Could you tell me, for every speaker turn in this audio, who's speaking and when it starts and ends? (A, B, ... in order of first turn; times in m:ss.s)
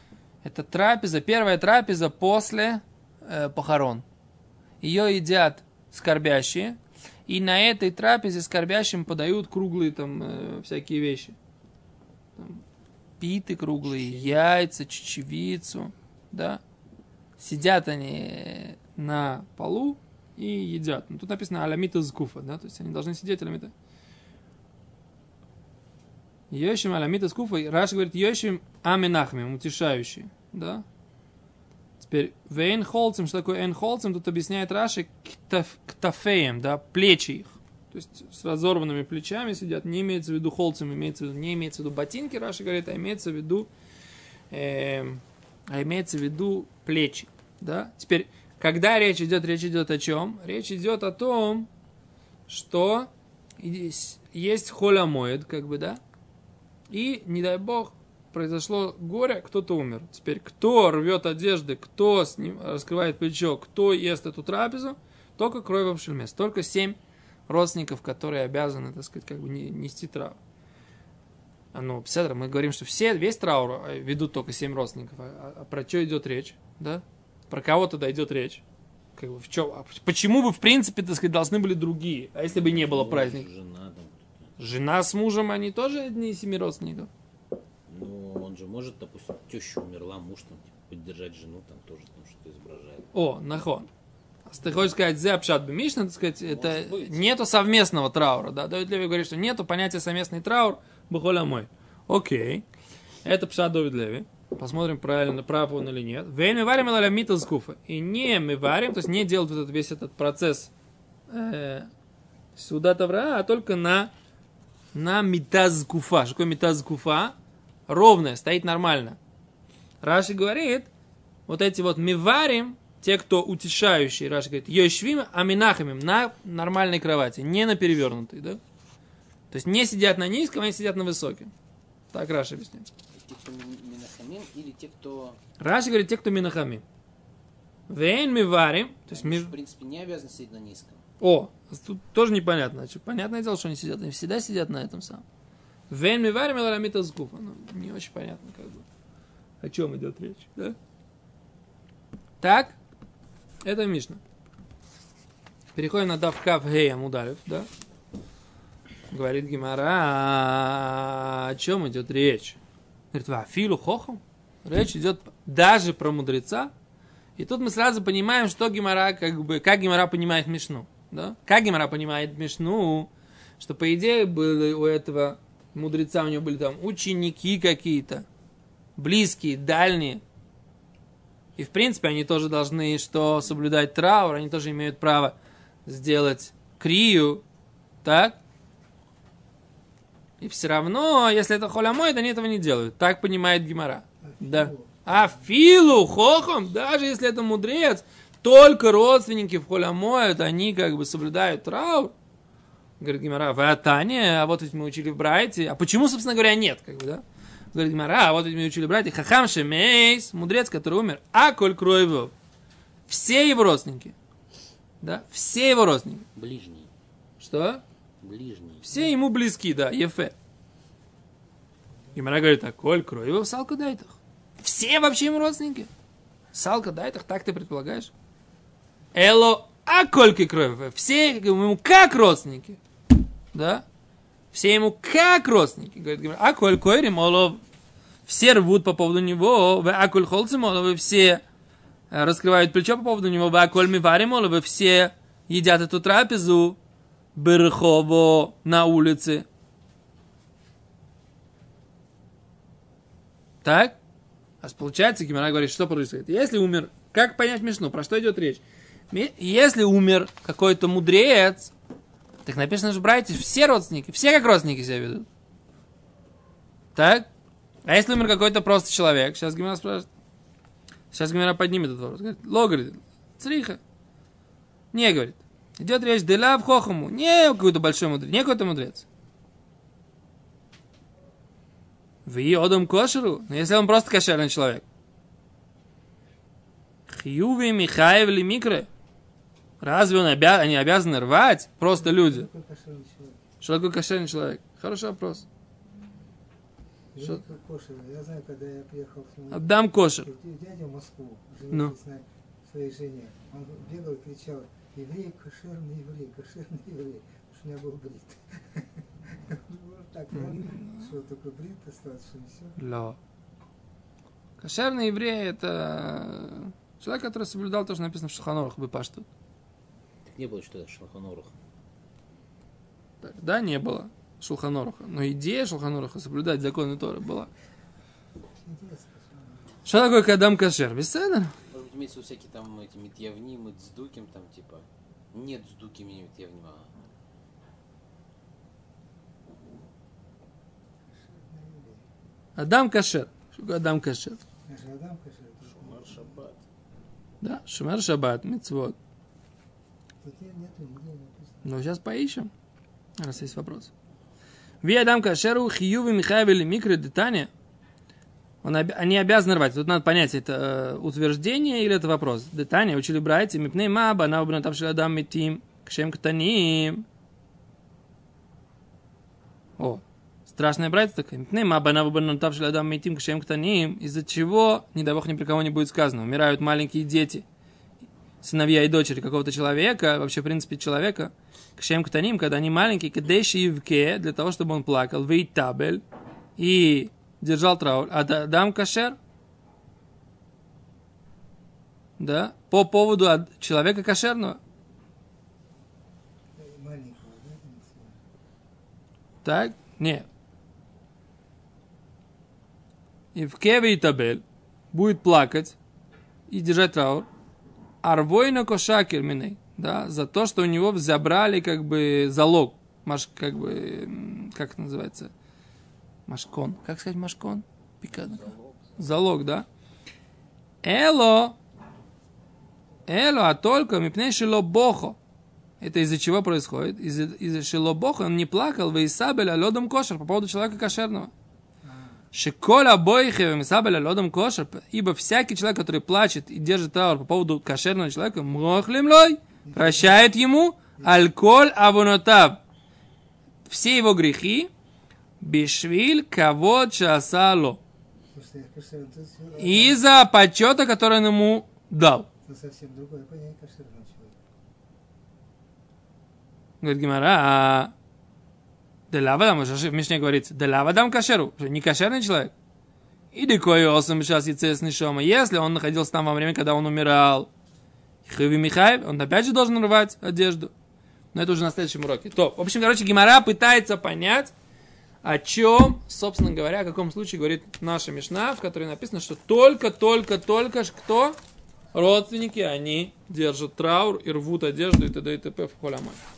0:00.4-0:04.0 A
0:04.8-0:11.4 A
0:12.4-0:12.6 A
0:13.2-0:16.6 A
0:13.8-0:14.3 B
0:17.4-0:23.7 A
0:26.5-0:30.8 A
0:32.0-0:43.7 A
0:44.5-0:51.7 A
0:52.5-0:56.0 A
0:56.9-1:10.4 A
1:11.7-1:18.6 A
1:19.2-1:23.4 A
1:22.5-1:24.5 B
1:24.6-1:27.1 A
1:27.9-1:33.1 B
1:33.1-1:33.9 A
1:34.5-1:42.6 A
1:36.4-1:37.3 B
1:43.2-1:50.7 A
1:51.3-1:51.9 A
1:52.6-1:54.1 A
1:54.9-1:57.3 A
1:57.9-1:59.2 A
2:00.0-2:00.9 A
2:01.5-2:08.6 A
2:09.5-2:11.5 A
2:12.1-2:12.9 A
2:13.1-2:15.4 B
2:15.6-2:16.8 A
2:17.9-2:19.5 A
2:19.1-2:21.0 B
2:21.2-2:25.2 A
2:25.9-2:28.8 A
2:29.6-2:30.8 A
2:32.4-2:32.8 A
2:33.6-2:34.2 A
2:35.7-2:37.7 A
2:39.1-2:42.6 A
2:43.1-2:46.7 A
2:47.4-2:58.2 A
2:59.0-3:00.2 A
3:01.6-3:07.4 A
3:08.0-3:08.4 A
3:10.4-3:22.1 A
3:14.2-3:15.3 C
3:23.0-3:32.3 A
3:33.1-3:34.1 A
3:35.0-3:36.2 A
3:36.3-3:36.9 B
3:37.4-3:37.8 A
3:38.2-3:38.9 B
3:38.8-3:40.3 A
3:42.1-3:45.9 A
3:46.5-3:48.1 A
3:49.1-3:52.8 A
3:53.5-3:53.8 A
3:54.5-3:57.6 A
3:58.2-4:01.4 A
4:02.1-4:06.8 A
4:07.3-4:09.4 A
4:13.6-4:14.0 A
4:14.6-4:21.7 A
4:22.4-4:25.3 A
4:26.9-4:27.3 A
4:27.8-4:30.1 A
4:31.1-4:33.8 A
4:34.9-4:39.0 A
4:42.2-4:44.8 A
4:47.1-4:48.9 A
4:49.8-4:52.5 A
4:51.9-4:53.4 C
4:53.6-4:55.4 A
4:57.1-5:12.8 C
4:59.5-5:00.3 A
5:10.3-5:11.1 A
5:12.8-5:13.2 A
5:14.6-5:19.3 A
5:20.2-5:21.5 B
5:23.2-5:27.5 A
5:28.6-5:29.8 C
5:29.8-5:31.5 A
5:31.7-5:36.9 B
5:41.1-5:42.0 C
5:42.6-5:44.4 A
5:44.6-5:46.4 C
5:45.6-5:46.6 B
5:47.4-5:49.0 A
5:50.2-5:51.7 C
5:51.6-5:52.5 A
5:53.2-5:53.9 A
5:54.8-5:57.5 A
5:58.6-6:07.0 A
6:09.8-6:17.4 A
6:18.4-6:26.0 A
6:26.6-6:29.2 A
6:32.2-6:34.6 A
6:36.6-6:38.2 C
6:39.4-6:40.2 A
6:43.3-6:45.8 A
6:46.5-6:47.3 A
6:48.0-6:55.3 A
6:56.3-6:59.6 A
6:58.2-6:58.9 B
7:00.8-7:01.6 A
7:03.1-7:05.2 A
7:05.8-7:11.3 A
7:11.8-7:12.2 C
7:12.3-7:22.6 A
7:19.6-7:20.3 C
7:23.7-7:24.7 A
7:25.4-7:27.8 A
7:28.3-7:30.0 C
7:29.6-7:32.3 A
7:32.4-7:34.4 C
7:36.8-7:37.9 A
7:39.1-7:42.5 A
7:43.3-7:47.5 A
7:48.2-7:50.7 A
7:51.3-7:54.5 A
7:55.2-8:01.4 A
8:01.9-8:06.2 A